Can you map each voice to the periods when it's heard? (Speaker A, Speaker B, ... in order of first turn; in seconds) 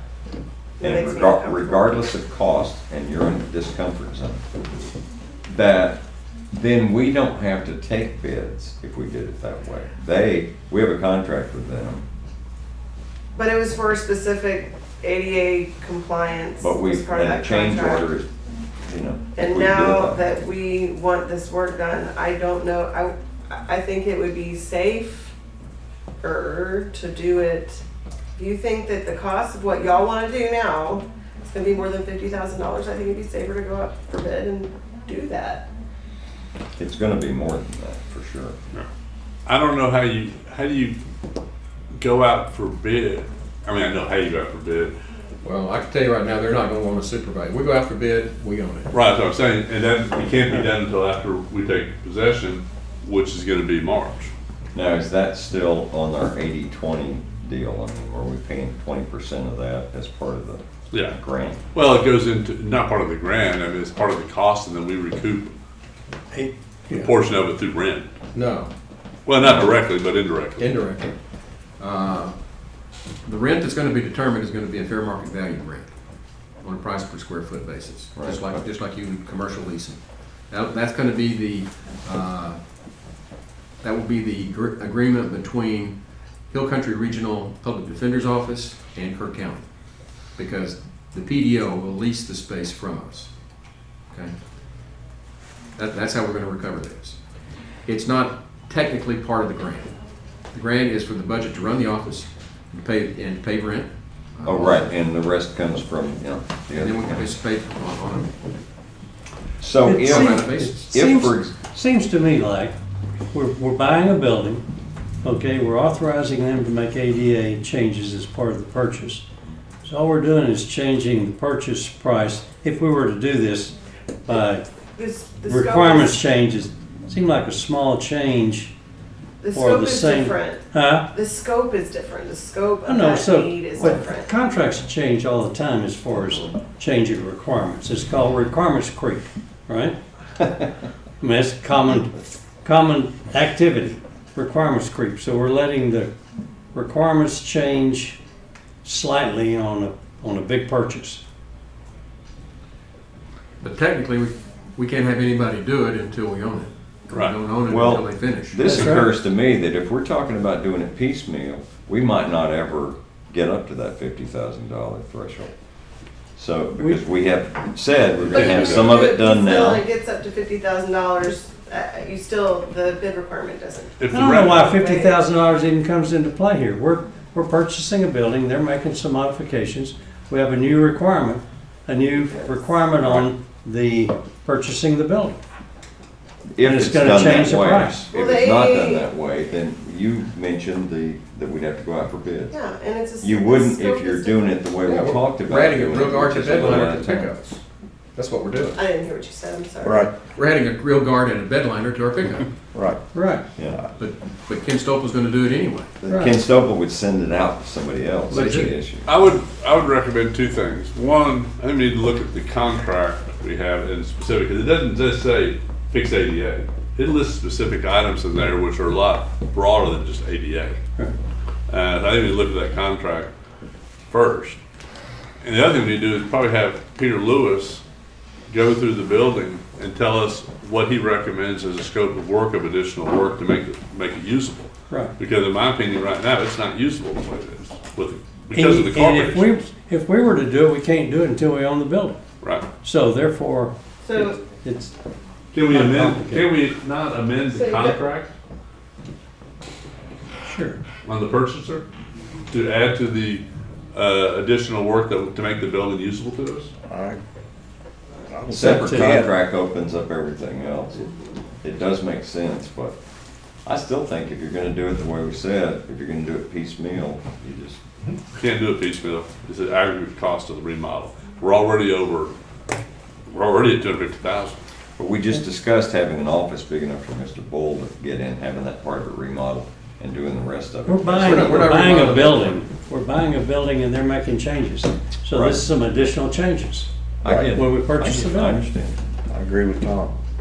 Speaker A: 0.8-2.0, 13.3-18.1, 19.4-25.3, 26.2-27.8, 28.4-35.7, 125.0-126.2, 129.4-134.3, 168.3-175.2, 188.1-189.1, 192.5-194.5, 198.8-200.1, 244.0-244.4, 247.5-248.0
Speaker B: 0.8-4.4, 5.5-6.0, 6.5-12.0, 16.6-18.3, 18.8-20.2, 36.8-38.5, 54.7-61.6, 69.4-69.7, 78.2-78.6, 104.4-107.3, 109.6-111.6, 157.7-165.5, 166.4-169.8, 186.5-192.5, 193.2-197.3, 206.0-209.1, 258.5-261.1, 261.6-263.0, 263.6-267.8, 275.0-282.1, 287.2-289.0
Speaker C: 39.5-41.0, 42.0-44.9, 48.9-54.3, 61.7-65.5, 66.9-68.1, 69.2-70.7, 168.4-168.8, 174.0-174.8, 209.1-220.8, 221.7-223.3, 224.1-224.6, 225.4-227.8, 228.5-239.6, 242.4-242.7, 245.5-248.3, 251.0-251.8, 252.5-256.7, 268.3-272.4, 273.3-274.6
Speaker D: 45.4-48.9, 68.3-68.7, 70.6-71.1, 71.8-72.4, 73.2-75.9, 76.6-82.6, 83.8-86.0, 86.5-89.7, 90.4-93.3, 95.8-97.2, 97.9-100.0, 100.5-104.8, 106.8-108.3, 109.9-110.8, 153.6-158.9, 194.8-197.6, 198.1-198.8, 200.3-202.5, 204.0-205.9, 208.3-208.7, 281.1-282.6
Speaker E: 66.3-67.0, 109.9-112.7, 113.3-114.6, 115.2-119.2, 119.8-123.7, 124.3-124.7, 125.5-128.7, 129.5-131.1, 132.8-140.0, 141.2-146.1, 146.7-148.2, 148.8-151.2, 158.7-159.1, 174.1-185.4, 186.6-188.1, 203.1-203.4, 206.1-206.4, 208.3-208.7, 238.5-242.2, 242.8-244.9, 245.7-246.5, 250.4-250.8, 258.6-259.2, 280.9-286.9, 287.5-288.7
Speaker F: 199.8-200.1, 202.7-203.0, 203.7-203.9, 256.9-257.2, 258.3-259.3, 287.2-287.6, 289.3-290.2